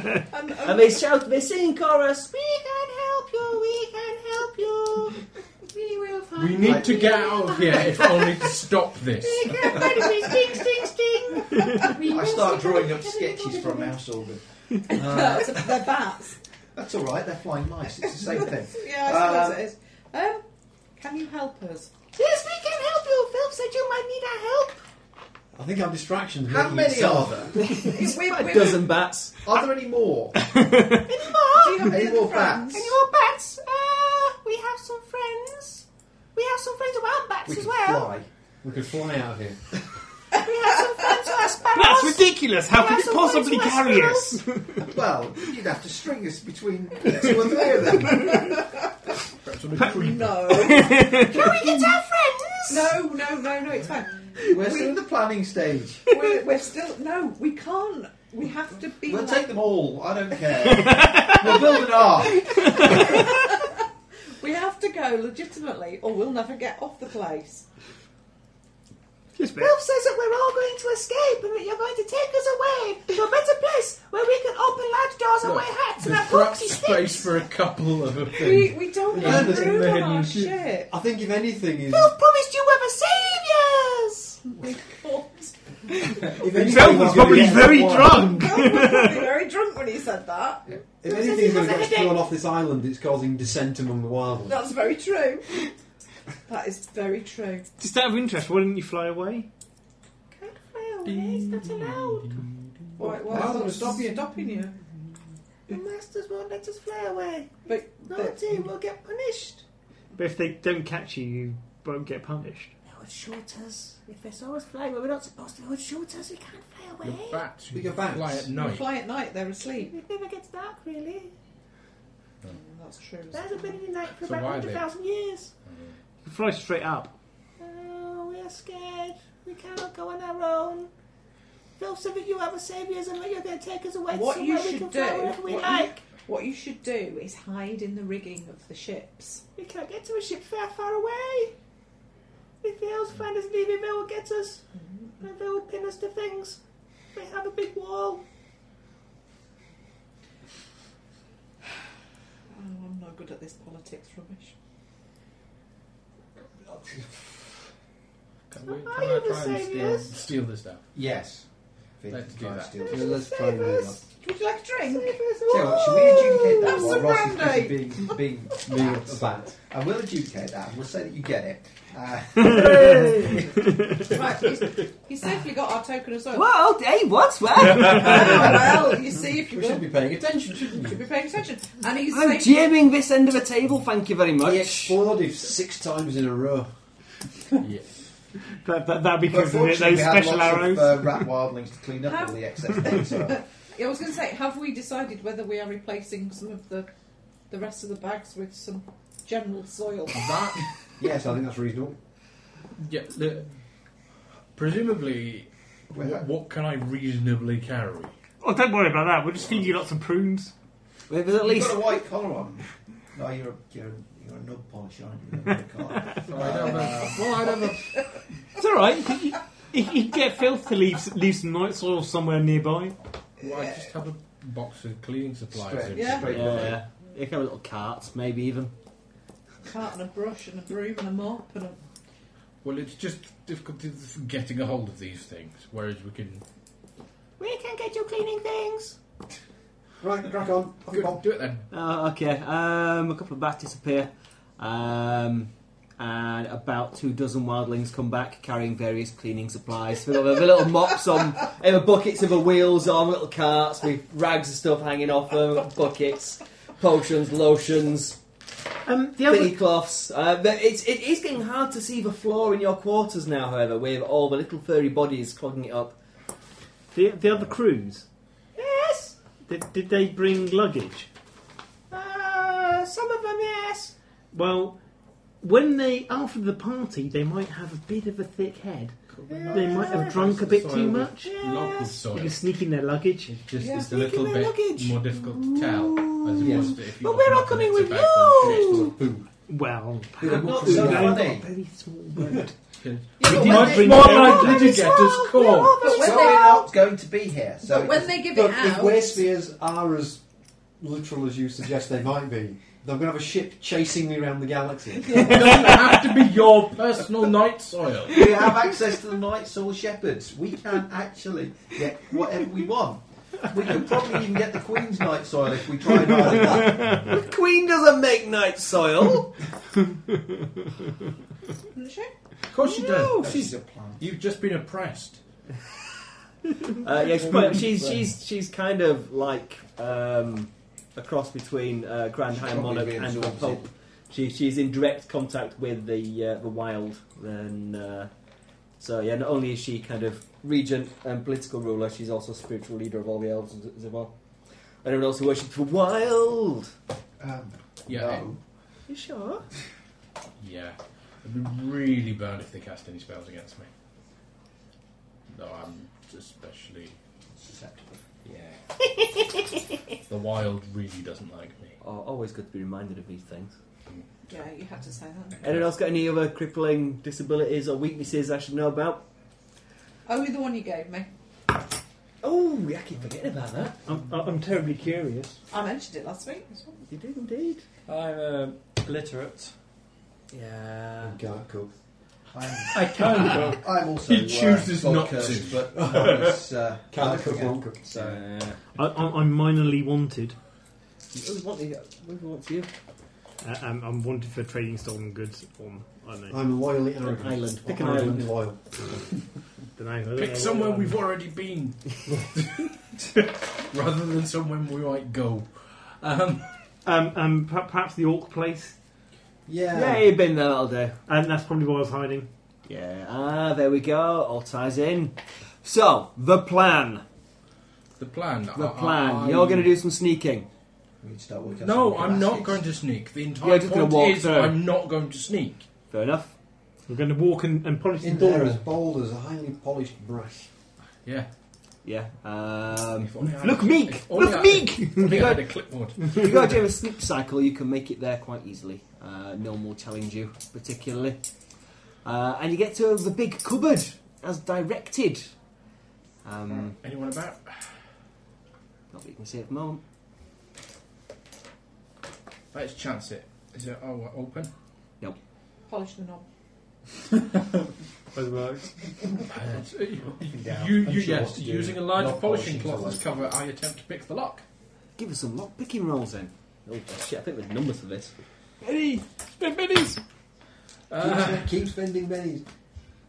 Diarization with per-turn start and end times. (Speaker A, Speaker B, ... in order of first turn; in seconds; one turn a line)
Speaker A: 0.2-1.0
Speaker B: 0.6-2.3
Speaker C: 2.3-8.5
Speaker D: 6.3-9.8
Speaker E: 6.7-7.1
Speaker C: 9.2-14.0
Speaker E: 12.0-15.9
Speaker A: 14.9-16.4
Speaker E: 16.8-19.6
Speaker A: 18.7-20.4
Speaker A: 21.0-21.9
Speaker C: 22.1-24.8
Speaker F: 25.6-27.6
Speaker E: 26.5-27.7
Speaker A: 27.7-29.1
Speaker B: 27.8-29.4
Speaker E: 29.4-30.6
Speaker G: 30.5-31.0
Speaker C: 31.0-31.9
Speaker A: 31.5-32.9
Speaker E: 31.8-32.8
Speaker C: 32.7-38.1
Speaker E: 37.5-38.3
Speaker F: 38.6-39.7
Speaker C: 40.3-44.5
Speaker G: 41.7-44.7
Speaker E: 44.8-48.6
Speaker A: 48.2-48.9
Speaker D: 49.4-50.8
Speaker A: 49.8-51.2
Speaker G: 50.6-51.4
Speaker C: 50.9-52.9
Speaker A: 52.7-55.0
Speaker E: 54.5-56.1
Speaker A: 56.1-59.5
Speaker E: 59.0-63.2
Speaker G: 60.9-61.4
Speaker A: 62.6-63.7
Speaker A: 64.4-67.7
Speaker G: 69.4-69.8
Speaker C: 69.5-77.3
Speaker D: 75.4-80.6
Speaker A: 78.3-80.9
Speaker F: 79.1-80.0
Speaker F: 80.9-82.1
Speaker C: 81.9-84.4
Speaker A: 84.4-85.5
Speaker G: 86.2-89.2
Speaker F: 86.4-88.6
Speaker E: 86.7-87.2
Speaker A: 88.2-90.7
Speaker F: 91.0-94.7
Speaker C: 91.1-92.2
Speaker A: 94.5-95.5
Speaker A: 96.5-97.7
Speaker G: 97.8-99.5
Speaker C: 100.3-102.3
Speaker H: 101.1-102.0
Speaker A: 103.0-104.8
Speaker E: 103.2-104.3
Speaker F: 103.2-104.0
Speaker C: 105.7-109.6
Speaker A: 107.7-108.4
Speaker G: 110.2-112.7
Speaker C: 112.9-117.4
Speaker D: 117.0-118.9
Speaker F: 117.7-118.5
Speaker A: 118.5-119.9
Speaker C: 119.8-121.3
Speaker A: 122.5-123.8
Speaker C: 123.3-125.5
Speaker D: 124.1-124.9
Speaker D: 125.7-126.0
Speaker G: 126.2-127.2
Speaker C: 127.6-130.9
Speaker C: 131.8-136.0
Speaker A: 134.1-139.4
Speaker C: 139.6-141.5
Speaker C: 142.6-144.6
Speaker A: 144.8-145.2
Speaker C: 145.2-146.6
Speaker C: 147.1-148.2
Speaker A: 152.5-154.5
Speaker D: 158.5-160.8
Speaker C: 158.7-160.1
Speaker E: 160.9-161.5
Speaker E: 162.0-163.2
Speaker D: 162.1-162.9
Speaker F: 162.9-164.0
Speaker C: 163.1-163.9
Speaker A: 163.2-165.2
Speaker C: 164.8-167.1
Speaker E: 165.5-173.7
Speaker A: 166.5-168.3
Speaker F: 168.7-169.6
Speaker B: 172.4-173.4
Speaker A: 174.0-176.5
Speaker B: 176.3-178.6
Speaker A: 177.8-179.9
Speaker F: 178.1-181.0
Speaker A: 180.6-182.7
Speaker B: 182.1-185.0
Speaker F: 184.4-186.7
Speaker D: 187.6-188.0
Speaker G: 188.6-191.2
Speaker E: 189.3-193.4
Speaker A: 192.1-196.9
Speaker A: 197.5-200.5
Speaker D: 200.1-200.7
Speaker F: 201.0-202.0
Speaker D: 202.8-203.5
Speaker D: 204.6-208.1
Speaker E: 205.9-206.3
Speaker G: 208.4-210.5
Speaker B: 211.1-212.0
Speaker E: 211.4-217.5
Speaker D: 216.1-217.9
Speaker G: 218.6-223.0
Speaker D: 223.4-226.8
Speaker A: 223.4-223.8
Speaker E: 225.5-226.8
Speaker A: 225.9-226.3
Speaker B: 226.3-228.7
Speaker A: 229.6-231.8
Speaker D: 232.6-236.4
Speaker C: 237.4-239.0
Speaker F: 240.0-241.2
Speaker D: 240.9-241.7
Speaker B: 241.7-258.2
Speaker G: 258.9-259.6
Speaker B: 259.2-266.0
Speaker G: 266.9-268.1
Speaker C: 268.6-269.2
Speaker G: 269.5-271.1
Speaker C: 271.9-273.9
Speaker G: 274.3-274.8
Speaker G: 275.4-279.0
Speaker D: 279.1-282.4
Speaker G: 279.5-281.3
Speaker C: 281.2-282.0
Speaker G: 282.1-283.4
Speaker D: 283.3-288.9
Speaker A: 283.6-283.9
Speaker C: 283.7-288.9
Speaker F: 286.4-286.7
Speaker F: 288.4-289.3
Speaker G: 289.5-292.5
Speaker F: 290.2-291.3
Speaker E: 290.2-291.5
Speaker D: 292.8-295.9
Speaker A: 293.2-295.0
Speaker G: 293.2-294.8
Speaker C: 294.1-296.6
Speaker A: 295.6-296.7
Speaker E: 295.9-298.2
Speaker A: 297.6-299.3
Speaker F: 298.2-300.2
Speaker F: 300.8-305.7
Speaker D: 305.1-308.3
Speaker E: 308.1-316.8
Speaker B: 316.1-319.3
Speaker A: 321.7-322.1
Speaker D: 322.5-325.2
Speaker E: 323.1-324.1
Speaker B: 326.8-338.1
Speaker E: 332.3-333.7
Speaker B: 338.8-344.1
Speaker B: 344.8-346.7
Speaker E: 347.2-348.4
Speaker D: 347.9-348.3
Speaker B: 348.9-349.4
Speaker D: 350.4-353.7
Speaker D: 355.3-357.0
Speaker E: 357.4-358.1
Speaker D: 358.2-358.6
Speaker D: 360.1-361.8
Speaker B: 361.8-363.5
Speaker D: 363.9-364.4
Speaker A: 364.3-365.4
Speaker D: 365.4-365.7
Speaker B: 365.4-369.1
Speaker A: 370.1-371.1
Speaker B: 372.2-373.8
Speaker G: 373.9-375.4
Speaker A: 375.5-376.8
Speaker B: 376.9-377.6
Speaker H: 377.9-379.5
Speaker B: 380.3-381.2
Speaker F: 381.0-381.7
Speaker E: 382.3-388.2
Speaker D: 382.7-386.0
Speaker F: 385.8-386.4
Speaker F: 386.9-387.9
Speaker B: 387.9-388.6
Speaker G: 388.8-390.4
Speaker B: 391.1-392.7
Speaker G: 393.4-396.4
Speaker F: 396.3-398.8
Speaker B: 397.0-398.3
Speaker G: 399.8-401.0
Speaker D: 400.1-406.6
Speaker G: 406.8-408.8
Speaker F: 409.5-410.1
Speaker B: 409.7-411.0
Speaker G: 411.1-412.3
Speaker B: 412.7-417.0
Speaker D: 418.0-419.8
Speaker B: 418.6-420.5
Speaker E: 421.0-422.8
Speaker D: 421.6-425.7
Speaker B: 423.4-424.6
Speaker B: 425.9-426.3
Speaker G: 426.9-428.6
Speaker F: 428.0-430.5
Speaker D: 431.1-431.3
Speaker B: 431.9-441.2
Speaker D: 433.0-436.6
Speaker B: 442.0-445.3
Speaker B: 446.2-446.8
Speaker D: 446.5-447.8
Speaker B: 448.9-449.8
Speaker D: 452.5-454.5
Speaker A: 455.7-456.2
Speaker G: 458.2-458.6
Speaker D: 459.2-464.4
Speaker E: 460.3-460.9
Speaker F: 460.8-463.0
Speaker B: 465.0-468.1
Speaker D: 470.9-471.5
Speaker F: 471.0-472.4